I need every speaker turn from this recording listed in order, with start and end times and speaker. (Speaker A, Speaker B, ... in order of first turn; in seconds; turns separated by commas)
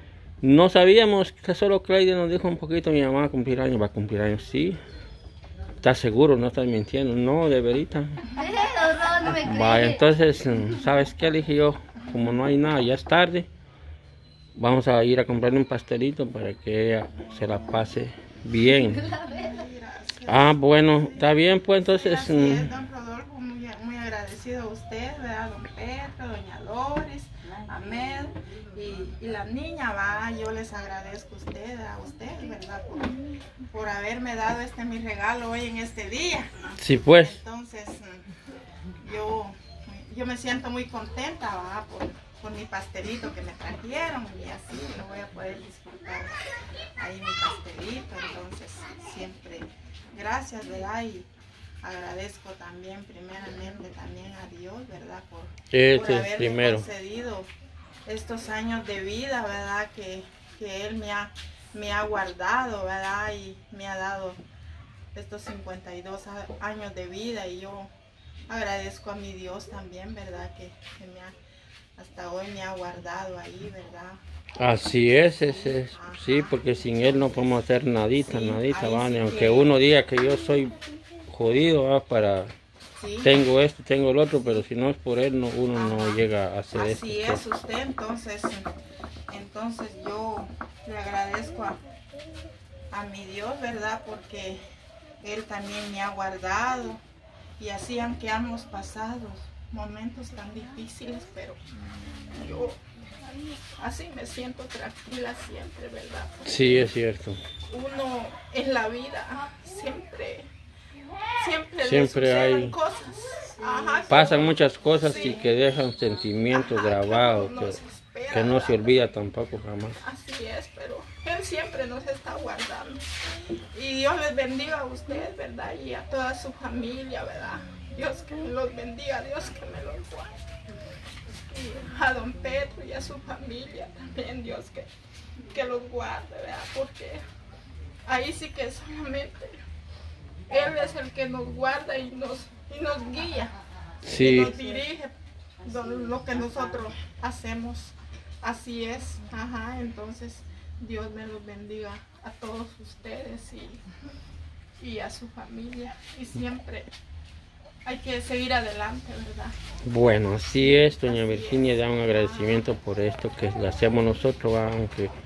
Speaker A: 0.4-4.8, Speaker A: 5.8-8.3, Speaker B: 8.3-10.0, Speaker A: 9.3-13.5, Speaker A: 14.6-19.0, Speaker B: 18.8-19.6, Speaker C: 19.2-38.2, Speaker A: 20.3-22.7, Speaker A: 36.8-37.4, Speaker C: 39.0-46.3, Speaker C: 47.0-51.3, Speaker C: 51.8-57.5, Speaker A: 55.7-56.8, Speaker C: 58.0-64.4, Speaker C: 65.1-67.9, Speaker C: 68.5-71.3, Speaker C: 72.0-74.2, Speaker A: 74.6-80.7, Speaker C: 75.3-79.7, Speaker A: 81.3-82.5, Speaker C: 83.0-83.3, Speaker A: 83.2-87.4, Speaker C: 84.3-84.6, Speaker C: 85.7-88.7, Speaker C: 89.3-91.8, Speaker C: 92.9-94.6, Speaker C: 95.2-97.0, Speaker C: 97.6-101.6, Speaker C: 102.2-102.8, Speaker C: 103.3-106.8, Speaker A: 106.4-107.4, Speaker C: 107.7-110.5, Speaker C: 111.3-115.5, Speaker A: 111.8-112.8, Speaker A: 114.1-117.8, Speaker C: 116.5-119.0, Speaker A: 118.3-120.0, Speaker C: 120.0-123.1, Speaker C: 123.7-130.4, Speaker C: 131.5-134.9, Speaker C: 135.5-137.2, Speaker C: 138.1-139.6, Speaker C: 140.5-143.5, Speaker A: 144.0-144.6, Speaker C: 144.1-153.8, Speaker C: 154.8-156.9, Speaker C: 157.8-159.6, Speaker A: 159.8-165.1, Speaker C: 160.5-162.7